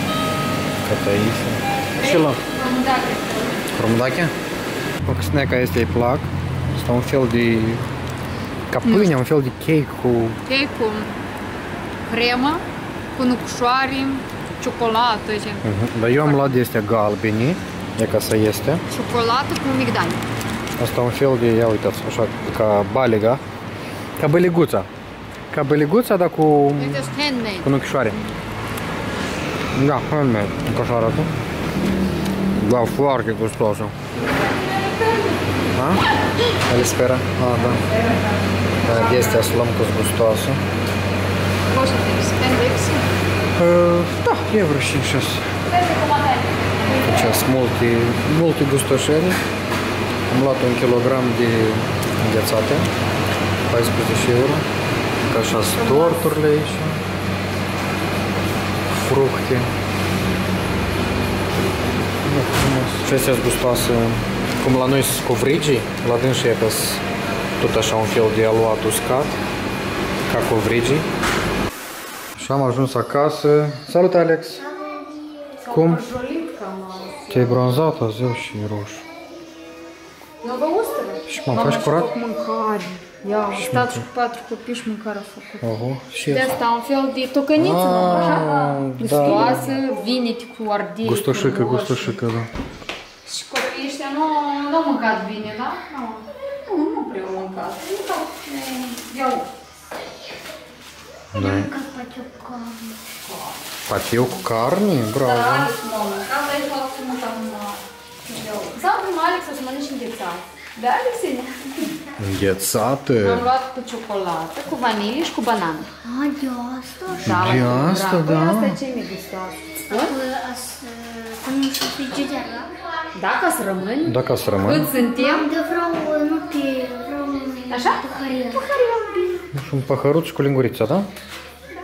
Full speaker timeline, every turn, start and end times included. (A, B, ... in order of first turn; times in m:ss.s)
0:00.8-0:02.4 A
0:02.0-0:03.7 B
0:03.7-0:04.3 A
0:05.0-0:07.9 A
0:08.7-0:10.4 A
0:08.8-0:09.1 B
0:10.4-0:11.2 B
0:12.1-0:16.6 B
0:15.6-0:18.8 A
0:18.9-0:20.2 B
0:20.8-0:23.4 A
0:24.2-0:24.9 A
0:25.5-0:27.1 A
0:26.8-0:27.7 B
0:27.6-0:28.2 A
0:29.7-0:31.3 A
0:32.6-0:34.0 A
0:34.4-0:35.4 B
0:35.7-0:36.0 A
0:36.7-0:37.8 A
0:37.6-0:39.5 B
0:38.8-0:40.6 A
0:41.7-0:43.1 B
0:43.6-0:45.5 A
0:45.7-0:47.3 B
0:47.0-0:49.4 A
0:50.3-0:52.9 A
0:53.7-0:54.7 A
0:55.3-0:57.0 A
0:55.6-0:56.3 B
0:59.0-0:59.7 A
1:02.2-1:07.0 A
1:07.6-1:09.4 A
1:10.3-1:11.1 A
1:12.4-1:14.7 A
1:15.6-1:17.6 B
1:15.7-1:16.0 A
1:17.3-1:19.0 A
1:20.4-1:25.6 B
1:21.3-1:22.1 A
1:23.5-1:24.0 A
1:25.6-1:26.5 A
1:26.3-1:32.2 B
1:27.6-1:29.7 A
1:31.0-1:32.5 A
1:33.2-1:39.5 B
1:41.3-1:41.7 A
1:41.4-1:43.5 B
1:43.9-1:45.7 A
1:45.2-1:52.0 B
1:52.2-1:53.5 A
1:53.2-1:55.9 B
1:56.0-1:57.1 C
1:57.1-2:00.2 B
1:57.2-1:58.8 A
1:59.9-2:02.7 C
2:03.1-2:05.5 B
2:04.0-2:04.9 A
2:05.2-2:08.4 C
2:07.7-2:09.5 B
2:09.5-2:11.1 A